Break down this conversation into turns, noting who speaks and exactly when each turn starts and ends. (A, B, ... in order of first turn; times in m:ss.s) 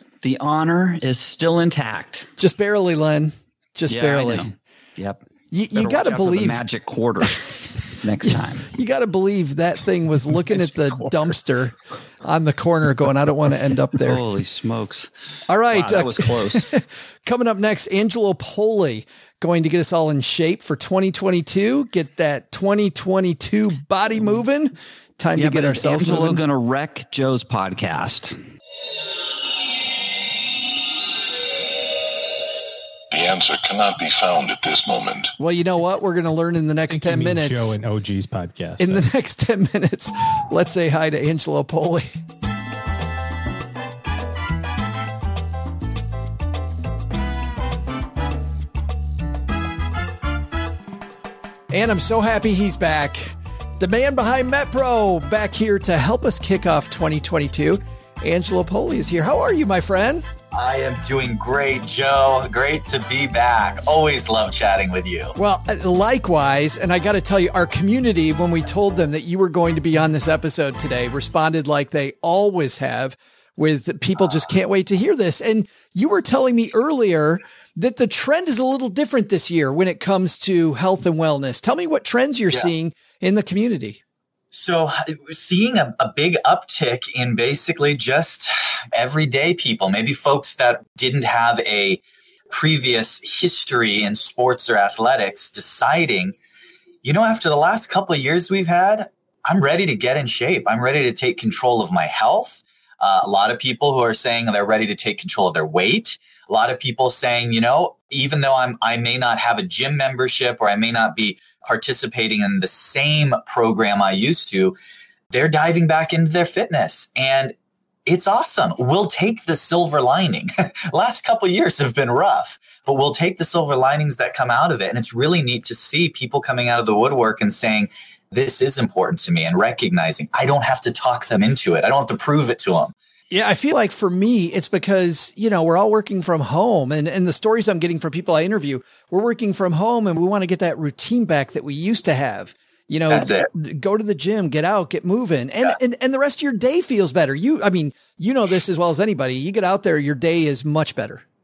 0:00.2-0:02.3 A
0:02.4-0:04.5 B
0:03.9-0:05.2 A
0:05.5-0:06.6 B
0:05.8-0:08.7 A
0:08.2-0:14.2 B
0:10.8-0:11.2 A
0:14.0-0:15.1 A
0:15.5-0:26.4 B
0:15.7-0:16.7 A
0:25.4-0:28.4 A
0:33.1-0:35.3 C
0:35.4-0:37.8 B
0:36.9-0:39.0 D
0:38.8-0:42.1 B
0:51.7-1:00.2 B
1:00.5-1:05.4 E
1:05.4-1:24.0 B
1:24.5-1:36.3 E
1:37.0-1:54.8 E
1:55.3-1:57.5 E
1:58.0-2:12.9 E
2:13.3-2:31.2 B
2:23.1-2:23.5 E